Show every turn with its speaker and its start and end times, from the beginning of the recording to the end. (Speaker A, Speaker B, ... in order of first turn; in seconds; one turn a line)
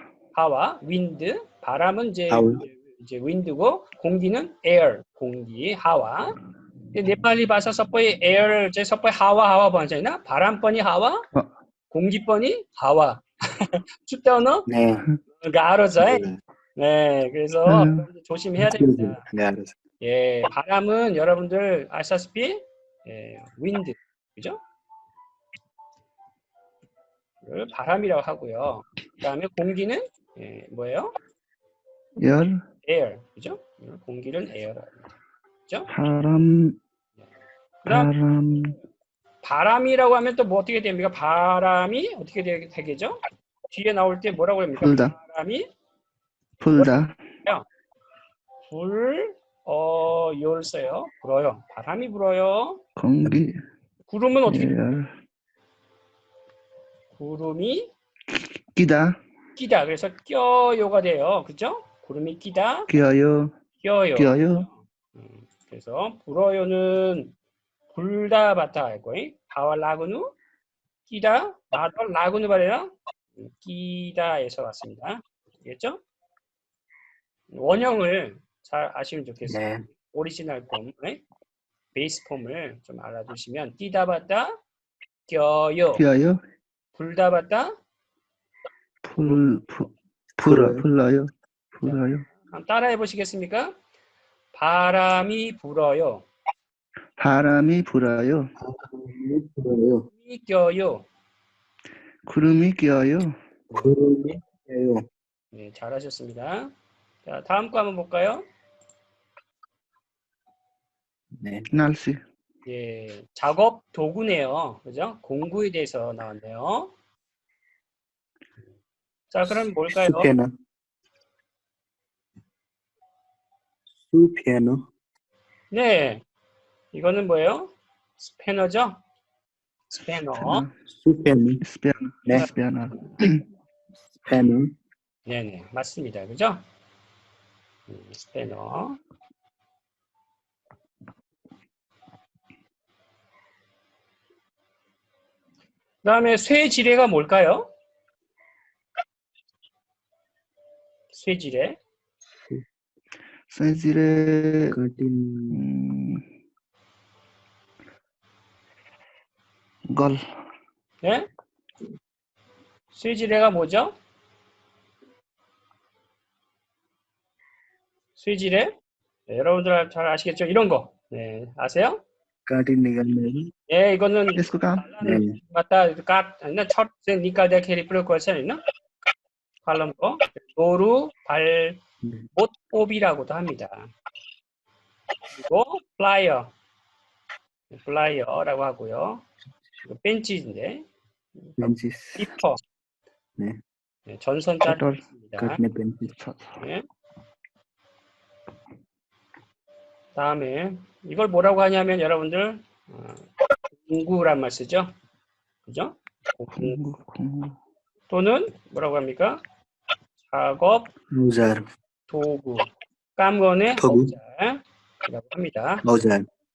Speaker A: 0.3-6.3
Speaker B: 2.3-2.6
Speaker A: 6.9-11.2
Speaker A: 11.9-14.7
Speaker B: 14.7-15.1
Speaker A: 15.4-19.2
Speaker B: 16.0-16.4
Speaker C: 17.6-18.1
Speaker B: 18.6-19.7
Speaker A: 20.0-24.6
Speaker A: 27.4-31.1
Speaker C: 32.2-32.6
Speaker A: 32.8-35.9
Speaker C: 35.9-36.8
Speaker A: 37.8-38.1
Speaker C: 37.8-38.8
Speaker A: 39.4-45.7
Speaker C: 44.8-45.1
Speaker C: 46.6-47.2
Speaker A: 46.8-47.6
Speaker A: 48.7-52.8
Speaker C: 53.0-53.5
Speaker A: 54.0-54.7
Speaker C: 54.5-55.1
Speaker A: 57.1-57.9
Speaker C: 58.7-59.2
Speaker A: 59.5-62.9
Speaker C: 62.9-63.5
Speaker A: 63.8-64.6
Speaker C: 64.2-64.7
Speaker A: 65.1-67.3
Speaker A: 67.9-70.3
Speaker A: 71.1-76.0
Speaker A: 77.5-81.2
Speaker B: 79.5-79.8
Speaker A: 81.9-84.6
Speaker A: 85.2-86.0
Speaker C: 85.9-86.4
Speaker A: 86.9-87.7
Speaker C: 89.0-92.2
Speaker B: 90.4-90.8
Speaker A: 91.8-93.8
Speaker A: 94.5-96.3
Speaker C: 97.2-98.5
Speaker B: 98.6-100.1
Speaker A: 100.2-101.1
Speaker C: 102.2-103.3
Speaker A: 103.7-104.0
Speaker B: 103.7-105.0
Speaker A: 105.5-106.7
Speaker A: 107.2-108.5
Speaker B: 111.4-111.7
Speaker C: 111.7-112.2
Speaker A: 112.7-116.9
Speaker A: 119.3-120.3
Speaker B: 119.8-120.5
Speaker B: 124.0-124.8
Speaker A: 125.7-126.2
Speaker A: 126.9-129.0
Speaker A: 129.9-130.6
Speaker C: 130.3-130.7
Speaker B: 130.9-131.6
Speaker C: 131.6-133.4
Speaker B: 134.2-134.7
Speaker A: 135.2-136.7
Speaker A: 137.9-139.0
Speaker A: 146.0-147.7
Speaker A: 151.1-151.8
Speaker C: 153.5-154.8
Speaker B: 154.7-155.6
Speaker C: 155.5-156.2
Speaker C: 159.9-160.2
Speaker A: 161.0-161.3
Speaker A: 162.9-163.9
Speaker A: 168.2-168.7
Speaker A: 169.3-172.0
Speaker B: 172.5-173.5
Speaker A: 173.7-178.6
Speaker C: 174.3-175.0
Speaker B: 175.0-175.4
Speaker A: 179.6-181.8
Speaker A: 182.3-183.9
Speaker A: 185.3-186.5
Speaker A: 187.7-189.3
Speaker A: 189.8-192.6
Speaker B: 191.6-192.3
Speaker A: 194.1-195.6
Speaker C: 194.7-195.0
Speaker B: 195.4-196.1
Speaker C: 196.1-196.6
Speaker A: 196.6-196.8
Speaker A: 200.1-204.9
Speaker A: 205.6-206.8
Speaker C: 206.5-207.6
Speaker A: 208.1-209.4
Speaker A: 210.2-210.9
Speaker B: 211.1-211.6
Speaker A: 212.1-215.8
Speaker B: 213.8-214.1
Speaker B: 215.8-216.3